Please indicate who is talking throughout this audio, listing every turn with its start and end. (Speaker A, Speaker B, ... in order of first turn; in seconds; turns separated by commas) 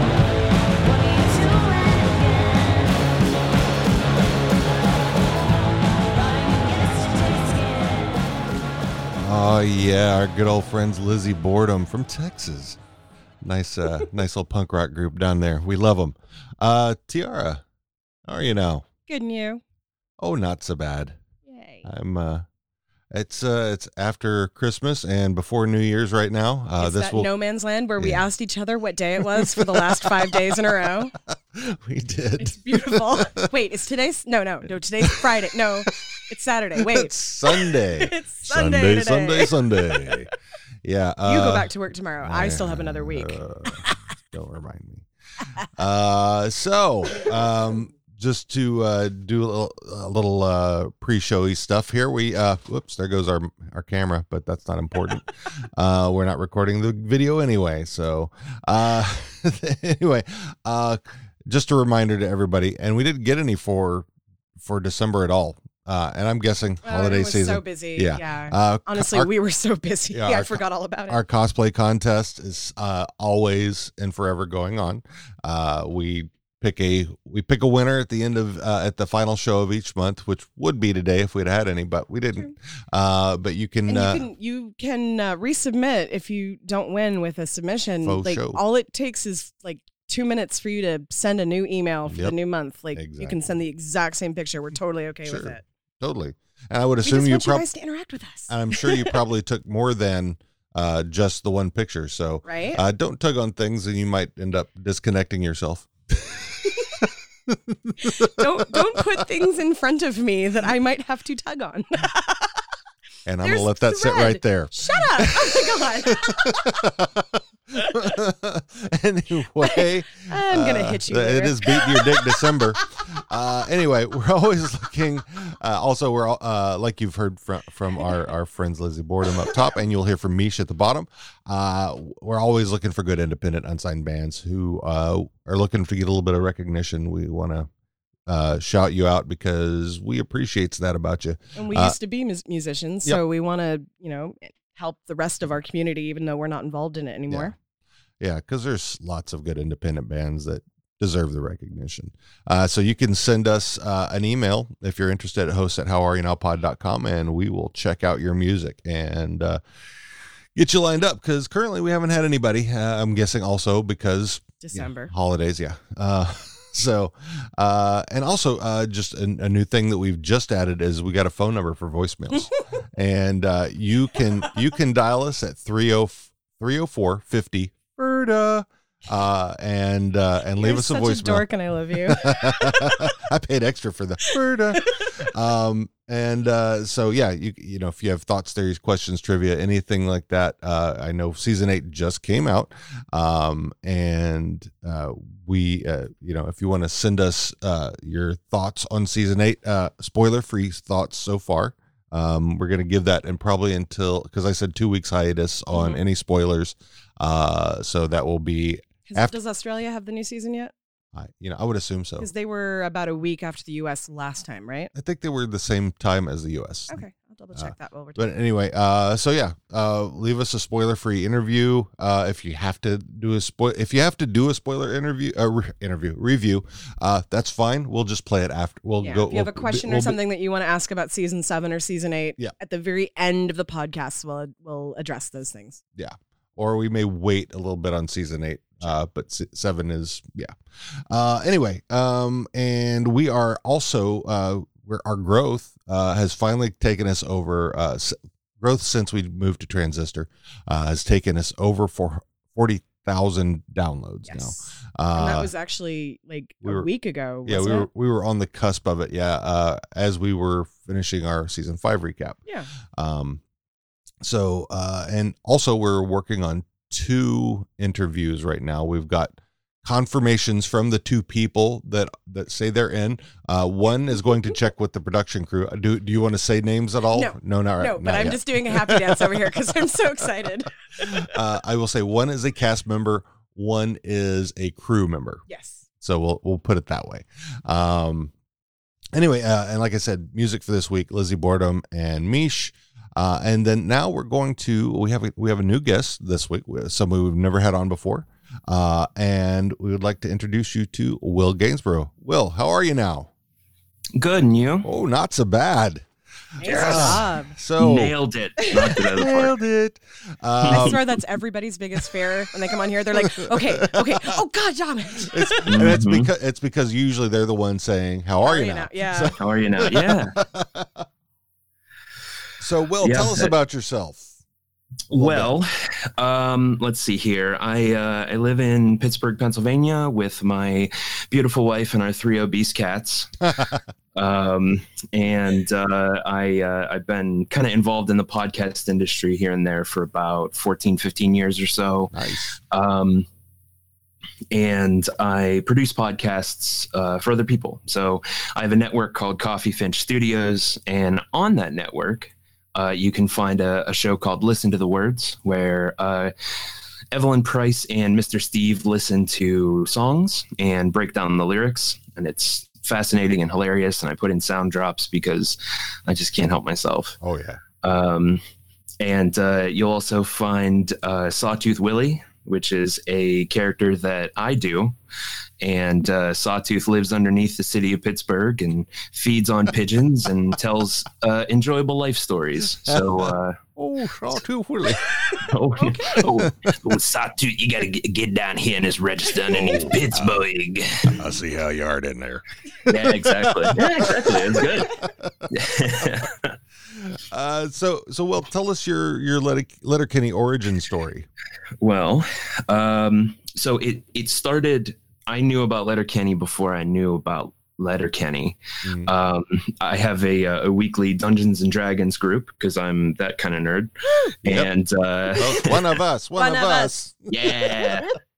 Speaker A: 9.2-12.8, Speaker A: 13.4-17.6, Speaker A: 18.3-18.9, Speaker B: 19.1-19.6, Speaker A: 20.2-21.2, Speaker B: 21.5-21.9, Speaker A: 21.8-22.4, Speaker A: 23.1-27.3, Speaker B: 26.8-31.1, Speaker A: 28.0-28.2, Speaker A: 29.3-33.5, Speaker B: 32.4-40.1, Speaker A: 36.8-40.3, Speaker A: 40.8-41.7, Speaker B: 41.2-43.9, Speaker A: 42.2-45.1, Speaker A: 45.7-64.1, Speaker A: 64.6-69.3, Speaker B: 66.8-71.2, Speaker A: 70.1-84.3, Speaker B: 83.9-95.6, Speaker A: 88.0-88.6, Speaker A: 92.1-92.4, Speaker A: 92.9-93.4, Speaker A: 95.2-97.7, Speaker B: 97.0-99.2, Speaker A: 98.5-109.0, Speaker B: 102.5-102.8, Speaker B: 108.0-112.5, Speaker A: 113.3-137.7, Speaker B: 113.4-116.7, Speaker B: 119.6-122.3, Speaker A: 138.3-142.0, Speaker B: 141.6-147.5, Speaker A: 148.2-159.6, Speaker A: 160.6-181.5, Speaker B: 164.6-165.1, Speaker B: 180.6-182.9, Speaker A: 182.0-209.4, Speaker B: 184.3-185.1, Speaker B: 205.7-206.0, Speaker B: 209.1-210.7, Speaker A: 211.1-212.3, Speaker B: 212.2-214.9, Speaker A: 214.9-217.0, Speaker B: 216.9-218.3, Speaker A: 217.6-230.2, Speaker B: 229.0-235.8, Speaker A: 235.9-240.5, Speaker A: 241.1-255.5, Speaker B: 254.3-257.9, Speaker A: 256.6-256.9, Speaker A: 257.4-262.4, Speaker A: 262.9-263.4, Speaker A: 264.2-279.7, Speaker B: 277.1-281.2, Speaker A: 281.0-285.4, Speaker B: 285.5-285.9, Speaker A: 286.0-288.3, Speaker A: 289.1-303.3, Speaker C: 304.2-304.9, Speaker A: 304.8-306.1, Speaker B: 306.6-307.5, Speaker A: 306.6-308.2, Speaker C: 306.6-307.2, Speaker C: 307.8-309.6, Speaker A: 309.1-311.0, Speaker B: 310.7-315.7, Speaker A: 313.1-314.3, Speaker A: 315.2-321.1, Speaker C: 315.7-316.3, Speaker B: 318.4-319.3, Speaker C: 319.4-320.4, Speaker A: 322.6-324.4, Speaker C: 323.0-323.5, Speaker C: 325.1-333.3, Speaker A: 325.1-325.5, Speaker C: 334.1-342.1, Speaker A: 342.1-342.6, Speaker C: 342.7-343.3, Speaker C: 344.5-356.3, Speaker C: 357.1-367.2, Speaker A: 367.2-367.6, Speaker C: 367.8-368.4, Speaker C: 369.0-374.9, Speaker C: 375.6-383.6, Speaker A: 382.9-383.2, Speaker A: 383.8-385.0, Speaker C: 385.5-391.1, Speaker B: 385.8-386.2, Speaker A: 386.2-386.7, Speaker A: 389.5-390.4, Speaker A: 391.1-395.4, Speaker C: 392.9-394.9, Speaker C: 395.5-396.5, Speaker A: 397.0-401.3, Speaker C: 401.8-413.9, Speaker A: 408.8-409.1, Speaker C: 414.4-415.8, Speaker A: 415.3-417.8, Speaker B: 416.4-416.9, Speaker C: 417.3-418.1